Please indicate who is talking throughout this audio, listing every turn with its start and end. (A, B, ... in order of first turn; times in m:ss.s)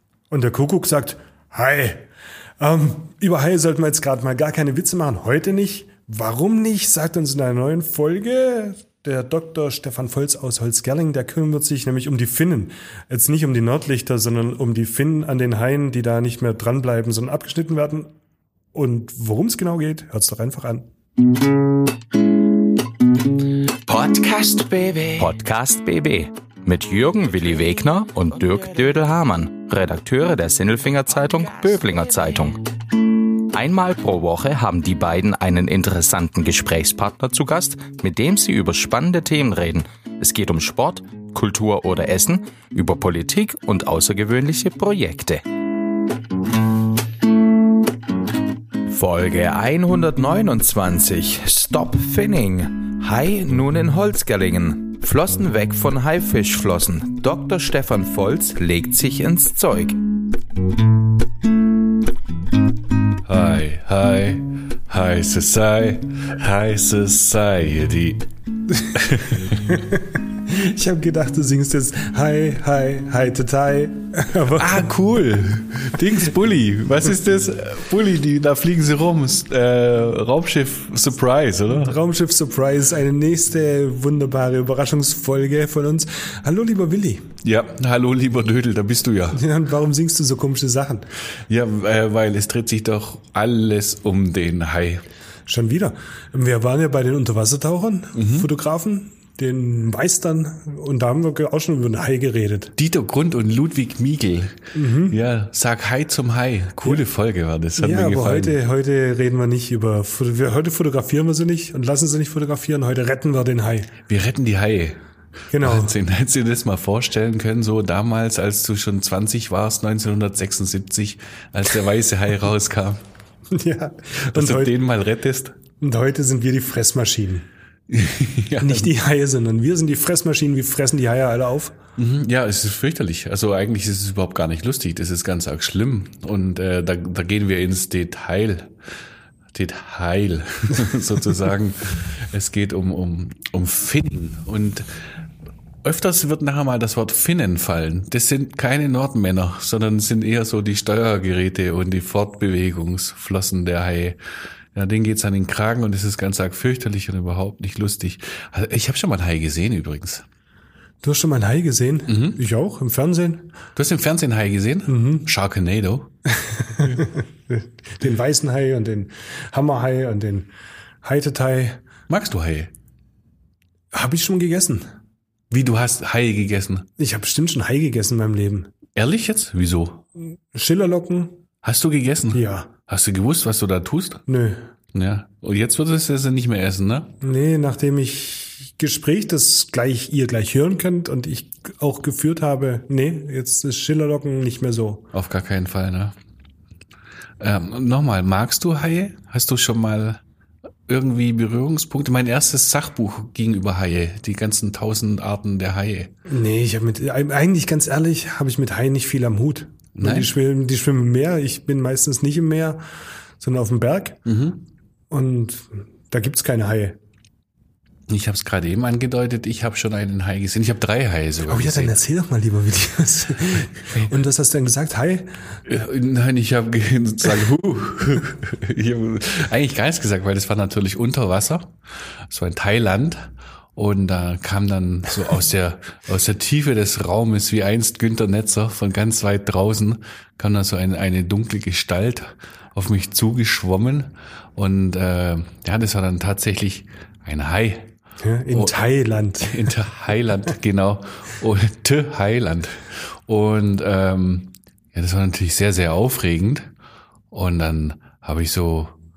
0:00.3-0:02.1 A
0:02.6-0:18.1 A
0:18.7-0:20.9 A
0:23.9-0:32.6 B
0:33.5-0:45.4 B
0:48.9-1:00.0 B
1:03.3-1:08.2 C
1:08.9-1:09.8 C
1:09.5-1:14.9 A
1:14.6-1:22.0 C
1:21.7-1:27.3 A
1:27.4-1:29.4 C
1:29.3-1:31.1 A
1:31.5-1:35.0 C
1:35.5-1:42.7 A
1:38.2-1:38.5 C
1:42.8-1:48.6 C
1:44.7-1:45.2 A
1:47.8-1:53.9 A
1:54.1-1:55.0 C
1:55.5-1:55.9 A
1:55.6-2:03.0 C
2:03.5-2:04.7 A
2:04.3-2:05.6 C
2:05.8-2:07.5 A
2:07.9-2:08.9 C
2:08.6-2:11.8 A
2:12.0-2:18.7 C
2:19.5-2:24.9 C
2:25.8-2:34.2 C
2:34.7-2:40.2 C
2:41.0-2:43.5 A
2:42.1-2:42.4 C
2:43.8-2:46.1 C
2:44.9-2:45.2 A
2:46.3-2:50.5 A
2:51.0-2:51.8 A
2:52.1-2:52.7 C
2:53.9-2:54.9 A
2:55.5-2:56.9 C
2:57.0-2:58.7 A
2:59.0-3:00.0 C
3:00.2-3:01.4 A
3:01.6-3:04.2 C
3:02.3-3:02.7 A
3:04.3-3:04.7 A
3:04.9-3:07.1 C
3:07.2-3:15.0 A
3:15.1-3:16.2 C
3:17.4-3:20.2 C
3:20.9-3:26.1 C
3:26.3-3:32.8 A
3:30.0-3:30.3 C
3:33.4-3:34.2 A
3:34.2-3:34.6 C
3:35.1-3:37.0 A
3:38.1-3:41.9 C
3:41.5-3:45.4 A
3:45.7-3:51.7 C
3:52.3-4:07.9 C
4:08.2-4:09.8 A
4:08.5-4:08.8 C
4:09.4-4:16.7 C
4:17.3-4:18.9 C